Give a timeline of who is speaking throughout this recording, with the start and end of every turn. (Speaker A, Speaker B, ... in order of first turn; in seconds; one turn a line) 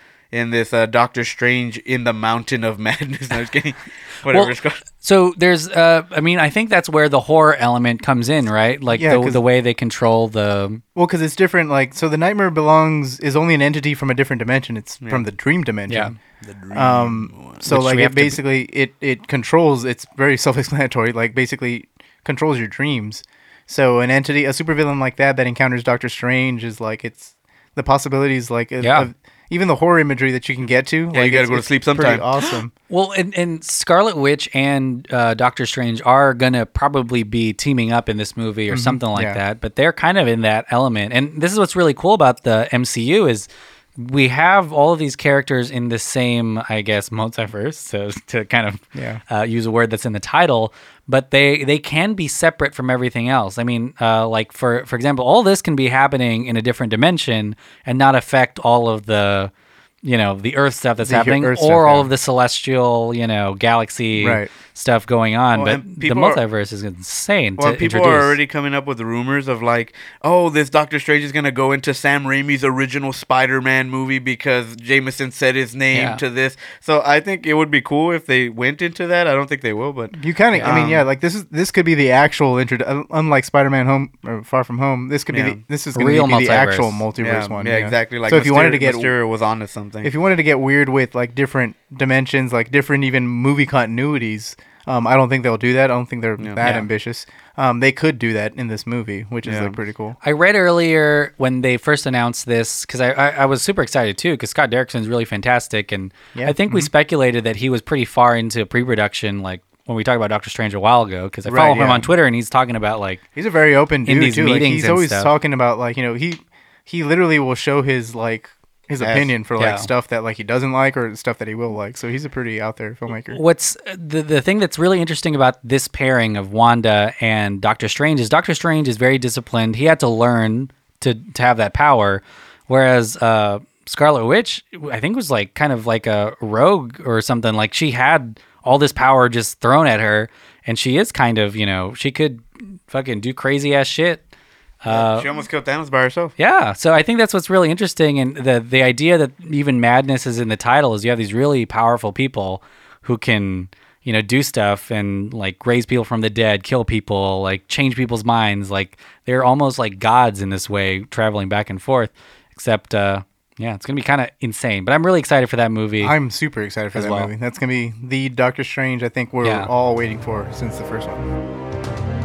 Speaker A: 0.3-4.8
Speaker B: 4.3-10.8
Speaker C: 8.9-9.4
Speaker C: 10.9-16.1
Speaker B: 15.9-16.1
Speaker A: 16.4-17.6
Speaker C: 16.7-32.7
Speaker B: 17.6-18.4
Speaker B: 28.8-29.1
Speaker A: 31.1-32.3
Speaker B: 32.9-59.5
Speaker C: 38.7-39.4
Speaker C: 48.9-49.2
Speaker B: 60.0-68.4
Speaker C: 61.0-62.1
Speaker C: 64.1-64.5
Speaker A: 65.5-66.4
Speaker A: 67.6-81.0
Speaker B: 75.9-76.2
Speaker C: 80.2-89.1
Speaker A: 85.3-85.6
Speaker B: 85.9-87.0
Speaker A: 87.2-90.1
Speaker C: 90.0-100.2
Speaker B: 96.6-96.8
Speaker A: 99.4-99.7
Speaker B: 100.2-113.2
Speaker C: 106.3-106.9
Speaker C: 111.5-112.1
Speaker C: 113.3-123.4
Speaker B: 114.0-115.3
Speaker A: 119.0-119.3
Speaker B: 119.6-119.9
Speaker B: 123.3-144.2
Speaker B: 144.8-145.3
Speaker A: 144.9-146.3
Speaker B: 146.4-166.1
Speaker C: 166.0-171.3
Speaker B: 166.9-167.3
Speaker B: 169.4-169.7